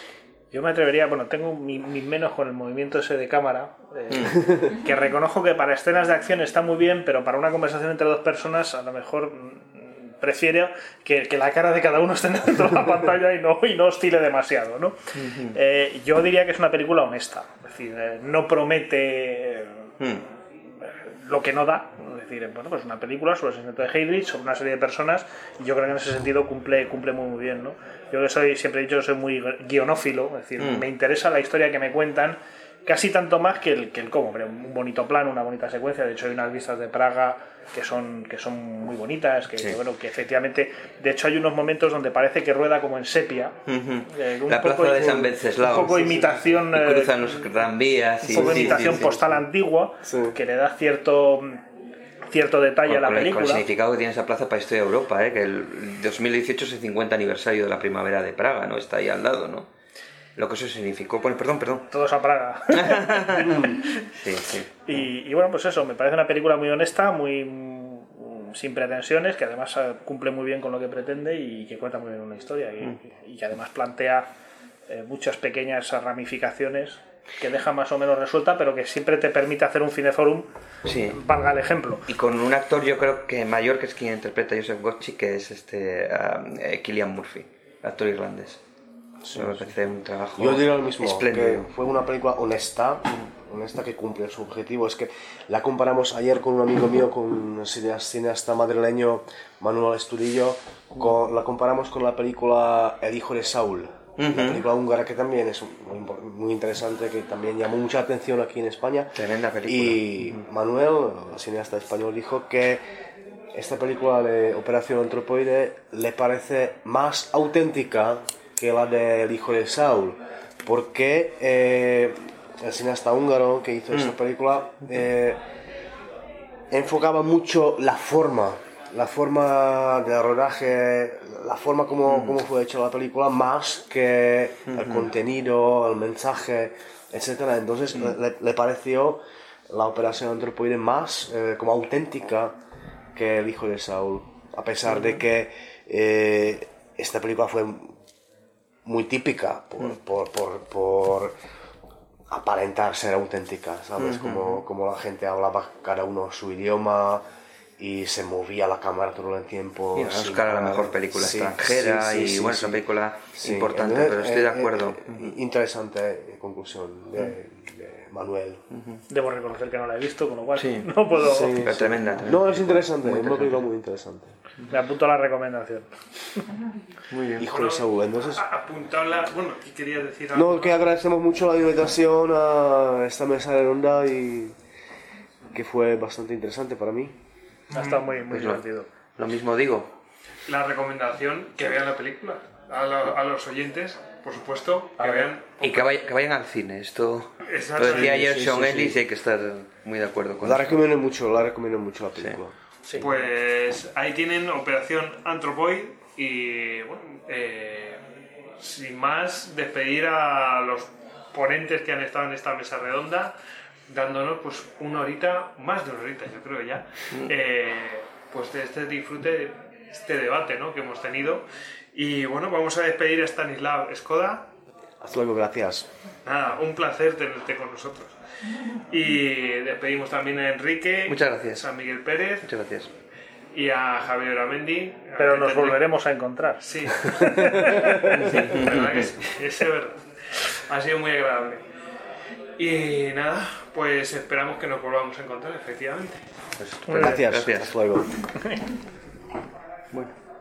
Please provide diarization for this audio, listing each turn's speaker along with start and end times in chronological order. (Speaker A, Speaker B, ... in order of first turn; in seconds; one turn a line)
Speaker A: 0.5-19.9
Speaker B: 15.2-15.6
Speaker A: 20.8-43.6
Speaker B: 30.6-30.9
Speaker B: 43.7-49.3
Speaker A: 44.1-47.4
Speaker A: 48.2-51.6
Speaker C: 48.3-49.2
Speaker C: 50.0-50.4
Speaker A: 52.3-53.6
Speaker B: 52.9-59.7
Speaker B: 60.4-61.9
Speaker A: 61.9-64.0
Speaker B: 62.7-65.0
Speaker A: 64.9-74.3
Speaker A: 74.9-80.5
Speaker B: 80.8-81.2
Speaker A: 81.1-82.1
Speaker B: 82.1-88.6
Speaker C: 89.2-89.7
Speaker B: 89.3-91.7
Speaker C: 90.4-112.8
Speaker B: 104.2-104.6
Speaker B: 109.2-110.4
Speaker C: 113.5-125.4
Speaker C: 126.7-142.6
Speaker B: 132.1-132.3
Speaker B: 134.7-135.1
Speaker C: 143.2-148.0
Speaker B: 144.9-145.2
Speaker C: 148.8-151.3
Speaker C: 152.3-157.2
Speaker B: 154.0-154.6
Speaker C: 157.8-162.8
Speaker B: 159.9-165.3
Speaker C: 163.4-168.6
Speaker A: 169.1-171.6
Speaker B: 170.6-173.6
Speaker C: 171.2-174.4
Speaker A: 174.7-176.4
Speaker B: 177.1-177.5
Speaker C: 177.4-178.4
Speaker D: 177.4-180.8
Speaker C: 180.3-184.6
Speaker C: 185.5-187.2
Speaker A: 187.7-188.9
Speaker D: 187.7-188.0
Speaker B: 188.3-188.7
Speaker B: 189.2-189.9
Speaker D: 190.5-195.8
Speaker A: 195.0-195.3
Speaker B: 195.6-200.8
Speaker D: 197.4-198.2
Speaker C: 197.9-199.0
Speaker C: 200.4-203.1
Speaker D: 203.0-208.0
Speaker D: 208.6-213.3
Speaker D: 213.9-224.5
Speaker C: 225.0-225.9
Speaker D: 226.2-228.2
Speaker D: 228.9-232.5
Speaker B: 231.1-231.7
Speaker B: 232.4-232.9
Speaker D: 233.5-235.8
Speaker A: 235.2-238.4
Speaker D: 236.6-241.7
Speaker C: 237.3-238.0
Speaker B: 238.1-239.1
Speaker D: 242.6-246.2
Speaker B: 246.6-247.7
Speaker C: 246.8-248.1
Speaker A: 246.9-247.3
Speaker A: 248.3-248.7